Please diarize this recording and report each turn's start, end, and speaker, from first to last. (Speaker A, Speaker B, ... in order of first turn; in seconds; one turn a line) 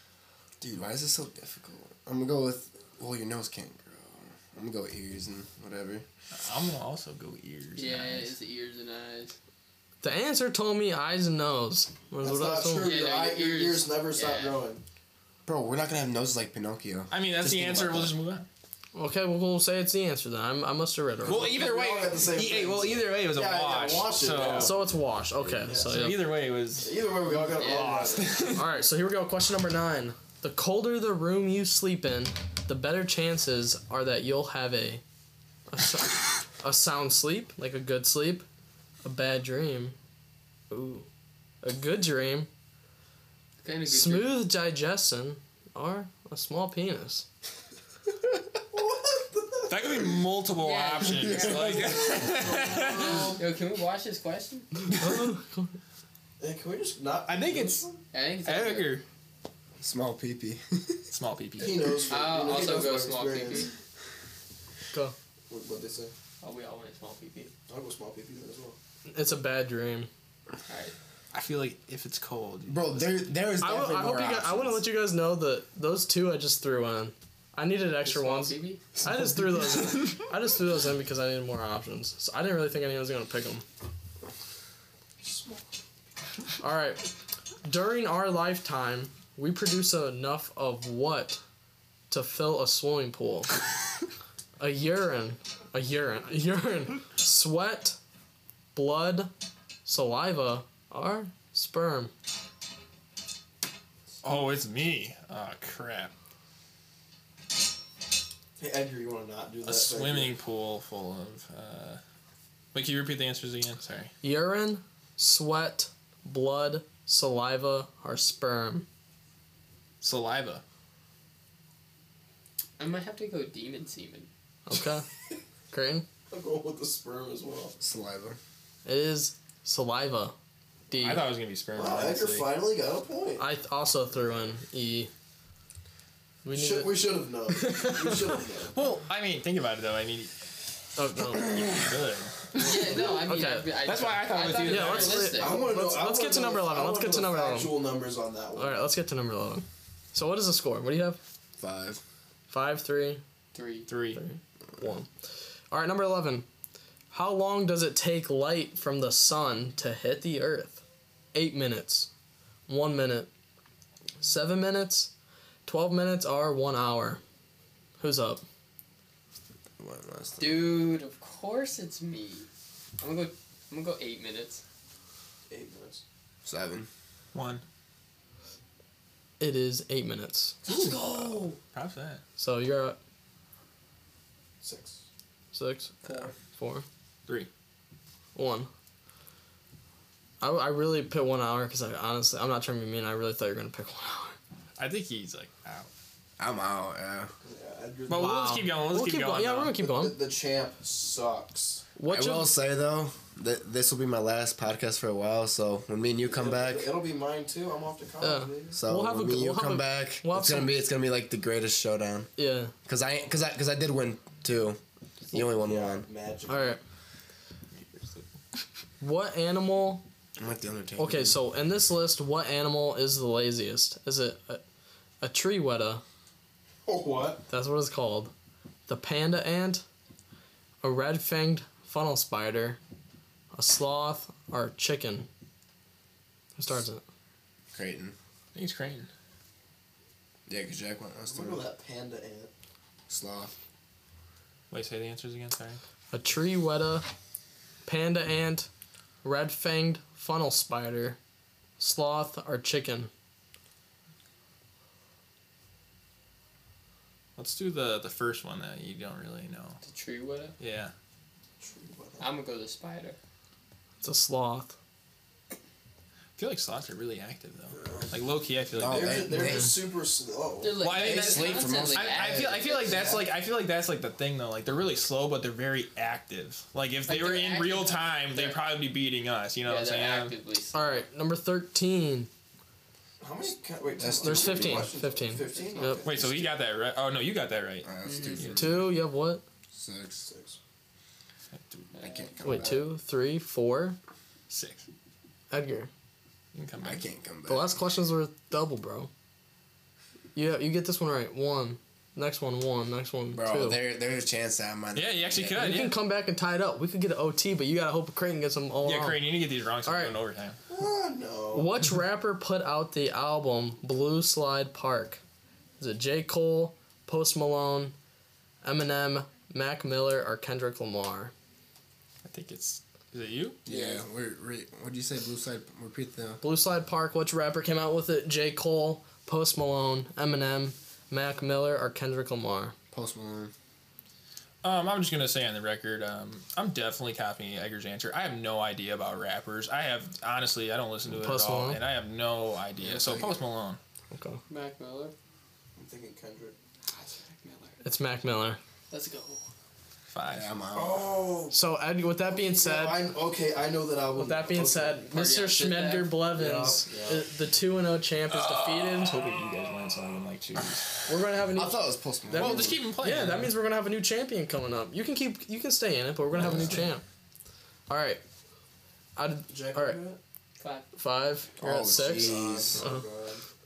Speaker A: 0.6-6.0
Speaker B: 6.3-8.3
Speaker C: 7.8-9.4
Speaker D: 10.0-12.9
Speaker E: 12.2-14.8
Speaker C: 12.8-14.6
Speaker A: 15.4-18.1
Speaker B: 17.1-18.5
Speaker D: 18.9-21.5
Speaker B: 21.2-24.8
Speaker E: 21.3-24.8
Speaker D: 24.5-26.3
Speaker E: 25.6-28.5
Speaker B: 25.9-27.1
Speaker C: 27.6-28.1
Speaker B: 27.6-28.7
Speaker D: 28.6-35.0
Speaker D: 35.7-38.4
Speaker D: 39.0-40.0
Speaker D: 40.7-41.1
Speaker D: 41.6-42.5
Speaker C: 43.6-44.4
Speaker D: 43.9-47.3
Speaker E: 48.7-50.4
Speaker B: 49.7-53.4
Speaker C: 50.6-52.1
Speaker E: 51.3-53.4
Speaker C: 52.7-54.7
Speaker D: 54.9-55.7
Speaker E: 56.4-58.0
Speaker B: 57.3-57.8
Speaker C: 58.1-59.0
Speaker B: 58.4-59.0
Speaker A: 59.8-61.1
Speaker B: 61.1-62.1
Speaker E: 61.6-63.7
Speaker C: 62.1-63.7
Speaker E: 65.5-66.1
Speaker C: 66.4-67.5
Speaker E: 67.7-68.8
Speaker D: 69.1-70.1
Speaker C: 70.7-70.9
Speaker B: 71.3-73.2
Speaker A: 72.7-74.8
Speaker D: 73.6-83.7
Speaker C: 78.0-78.8
Speaker E: 85.2-85.7
Speaker D: 86.6-87.1
Speaker D: 87.6-91.4
Speaker D: 92.1-93.6
Speaker D: 94.6-98.0
Speaker D: 98.7-99.3
Speaker D: 99.9-102.1
Speaker B: 104.2-106.1
Speaker E: 108.6-110.4
Speaker B: 109.6-112.0
Speaker B: 112.7-114.1
Speaker D: 114.2-118.9
Speaker B: 120.0-120.6
Speaker C: 122.8-124.3
Speaker D: 124.7-125.1
Speaker D: 125.7-126.1
Speaker E: 126.3-127.8
Speaker A: 127.8-128.4
Speaker D: 128.8-130.3
Speaker D: 130.9-131.3
Speaker B: 131.0-132.6
Speaker E: 131.7-133.4
Speaker D: 133.4-135.1
Speaker D: 136.4-138.4
Speaker E: 136.5-138.8
Speaker B: 138.7-140.3
Speaker D: 140.9-141.5
Speaker B: 141.5-142.7
Speaker C: 142.6-145.6
Speaker D: 142.9-143.7
Speaker B: 143.8-145.4
Speaker D: 144.6-147.8
Speaker E: 145.3-148.8
Speaker D: 148.6-151.2
Speaker A: 151.6-152.0
Speaker D: 152.5-153.2
Speaker C: 153.5-153.9
Speaker B: 153.9-154.2
Speaker D: 154.1-155.1
Speaker D: 155.7-156.5
Speaker D: 157.1-160.8
Speaker D: 161.3-162.1
Speaker D: 162.7-163.3
Speaker D: 164.2-165.1
Speaker D: 165.7-167.2
Speaker D: 168.0-168.4
Speaker A: 169.8-170.8
Speaker C: 170.4-172.5
Speaker C: 173.0-174.6
Speaker E: 175.5-176.0
Speaker A: 176.4-176.9
Speaker B: 177.3-177.6
Speaker D: 179.4-180.6
Speaker C: 180.7-181.6
Speaker B: 180.7-182.2
Speaker D: 182.4-183.0
Speaker E: 184.6-185.0
Speaker D: 185.5-186.8
Speaker C: 186.1-186.3
Speaker D: 188.3-188.7
Speaker D: 190.4-194.4
Speaker B: 194.8-195.9
Speaker A: 196.4-197.3
Speaker E: 197.4-198.4
Speaker B: 198.1-199.8
Speaker D: 198.1-200.2
Speaker E: 199.8-201.8
Speaker D: 202.0-202.5
Speaker A: 202.1-207.0
Speaker E: 206.2-208.8
Speaker D: 208.2-210.8
Speaker A: 208.7-212.3
Speaker D: 212.4-212.7
Speaker A: 212.8-214.8
Speaker A: 215.3-216.1
Speaker E: 215.5-216.8
Speaker D: 216.5-216.8
Speaker B: 217.7-218.2
Speaker D: 219.0-220.0
Speaker A: 220.4-221.4
Speaker D: 221.0-224.6
Speaker D: 225.2-226.0
Speaker E: 226.9-227.4
Speaker D: 227.5-228.3
Speaker D: 228.9-229.8
Speaker D: 230.8-232.8
Speaker D: 233.5-235.3
Speaker D: 236.6-237.0
Speaker A: 237.7-238.2
Speaker B: 238.5-239.1
Speaker A: 240.5-241.6
Speaker E: 241.3-242.5
Speaker A: 243.1-243.5
Speaker B: 244.7-245.8
Speaker D: 246.1-247.1
Speaker D: 247.8-248.7
Speaker D: 249.2-251.2
Speaker D: 251.8-253.1
Speaker B: 257.4-259.8
Speaker C: 259.8-260.6
Speaker B: 260.6-260.9
Speaker E: 261.6-262.3
Speaker C: 262.2-263.2
Speaker D: 264.0-264.7
Speaker B: 266.4-269.4
Speaker E: 267.8-271.5
Speaker A: 268.7-269.8
Speaker C: 270.6-273.1
Speaker B: 270.8-280.4
Speaker A: 271.0-272.9
Speaker E: 272.6-273.2
Speaker C: 277.1-278.6
Speaker C: 279.6-281.0
Speaker D: 280.7-282.3
Speaker E: 283.2-286.4
Speaker A: 284.0-284.9
Speaker D: 284.2-286.0
Speaker C: 285.5-285.9
Speaker B: 286.0-288.8
Speaker A: 286.2-286.5
Speaker A: 287.8-288.9
Speaker C: 288.1-288.4
Speaker D: 288.4-289.4
Speaker A: 289.7-290.3
Speaker E: 290.2-290.6
Speaker B: 291.5-291.9
Speaker C: 291.9-292.3
Speaker A: 292.0-292.8
Speaker D: 292.4-294.0
Speaker B: 294.5-294.9
Speaker D: 295.5-295.9
Speaker B: 296.5-297.1
Speaker A: 296.8-297.8
Speaker D: 297.4-299.1
Speaker D: 300.4-303.8
Speaker A: 303.3-305.6
Speaker B: 304.9-306.0
Speaker D: 305.5-309.2
Speaker B: 308.8-310.6
Speaker D: 309.8-310.1
Speaker E: 310.7-311.8
Speaker D: 311.5-315.2
Speaker D: 315.8-317.9
Speaker D: 318.6-321.3
Speaker B: 322.2-323.6
Speaker A: 323.6-326.4
Speaker C: 323.7-324.0
Speaker D: 326.4-332.7
Speaker A: 332.9-333.5
Speaker B: 334.6-343.8
Speaker D: 341.1-341.8
Speaker A: 342.8-343.4
Speaker D: 344.1-344.4
Speaker C: 344.5-345.1
Speaker E: 345.8-346.6
Speaker C: 346.9-347.8
Speaker D: 347.8-348.6
Speaker C: 348.9-349.5
Speaker B: 350.1-350.6
Speaker A: 350.3-351.3
Speaker E: 350.7-351.6
Speaker D: 351.5-353.1
Speaker E: 352.3-355.0
Speaker D: 354.2-359.2
Speaker C: 355.1-356.2
Speaker E: 356.3-357.3
Speaker B: 358.9-361.0
Speaker D: 361.1-367.0
Speaker A: 361.6-362.8
Speaker B: 362.4-363.5
Speaker A: 366.4-366.8
Speaker D: 367.9-368.2
Speaker D: 369.1-370.0
Speaker E: 369.5-370.2
Speaker C: 370.6-370.9
Speaker D: 370.9-373.0
Speaker A: 371.6-372.8
Speaker E: 372.0-373.4